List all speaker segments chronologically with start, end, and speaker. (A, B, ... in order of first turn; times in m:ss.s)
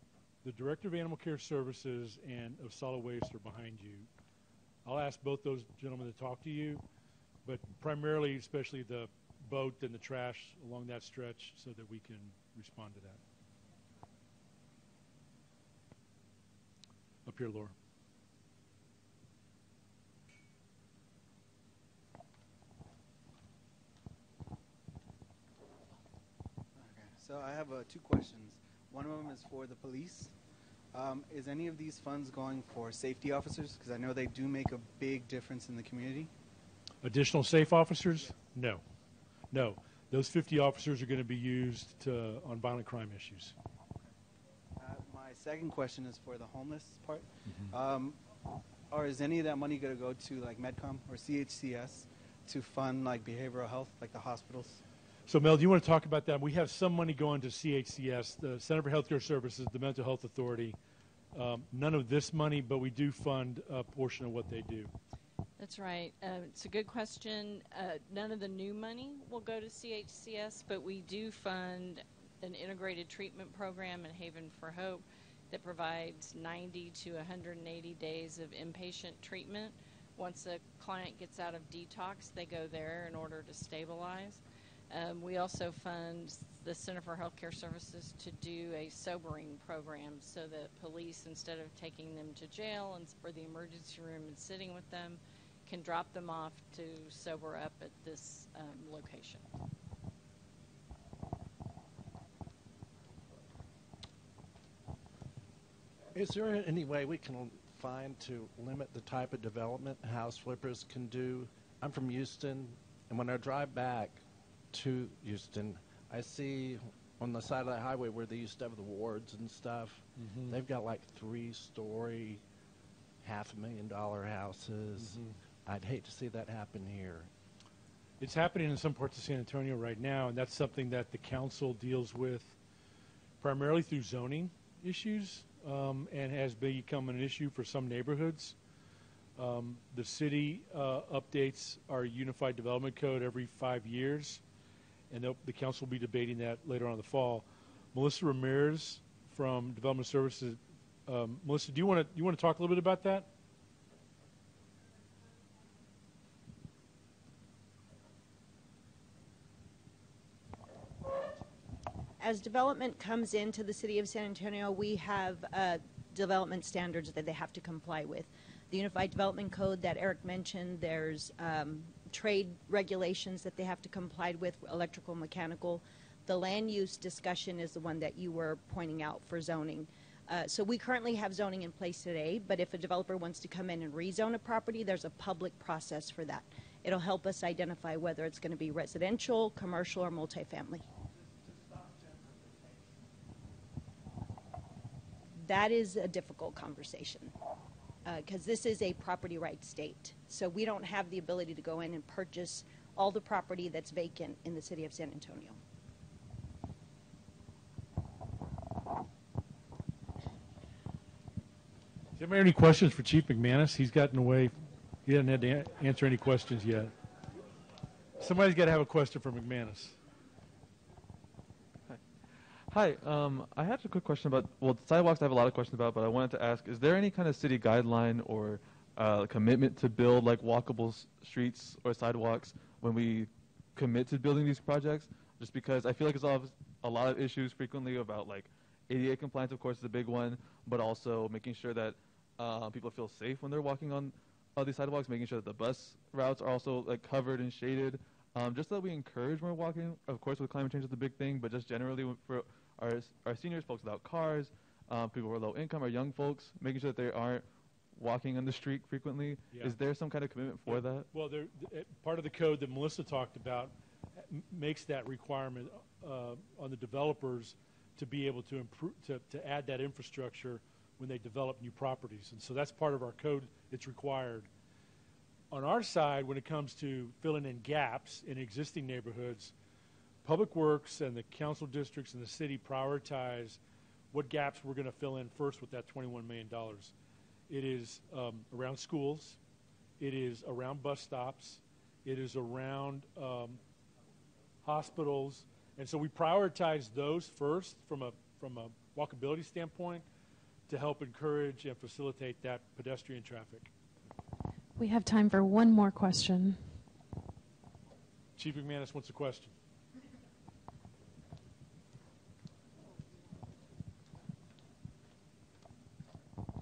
0:00.4-0:04.1 A
0:04.8-0:06.8 A
0:07.4-0:13.2 A
0:17.3-0:17.8 A
0:26.8-0:30.3 B
0:30.9-0:36.3 B
0:37.0-0:38.8 A
0:39.5-0:43.6 A
0:44.8-0:48.2 B
0:47.5-0:47.8 A
0:48.9-0:54.8 B
0:55.3-1:00.8 A
1:01.3-1:04.9 A
1:05.6-1:39.4 C
1:46.1-1:54.2 D
1:54.7-2:02.4 D
2:00.2-2:00.6 A
2:03.2-2:07.3 D
2:05.0-2:05.4 A
2:08.2-2:12.6 A
2:13.4-2:18.6 A
2:19.4-2:24.4 A
2:25.1-2:33.3 A
2:42.2-3:10.9 E
3:15.4-3:17.3 E
3:18.0-3:25.6 E
3:32.2-3:34.5 A
3:35.1-3:36.9 A
3:38.2-3:40.0 A
3:42.7-4:21.1 F
4:19.5-4:19.8 A
4:20.7-4:23.7 A
4:24.3-4:34.5 A
4:35.5-4:39.5 A
4:40.2-4:43.6 A
4:44.1-4:46.9 A
4:47.5-4:49.4 A
4:50.0-4:53.6 A
4:54.6-5:00.0 A
5:00.7-5:03.7 A
5:04.8-5:06.8 G
5:08.4-5:09.5 A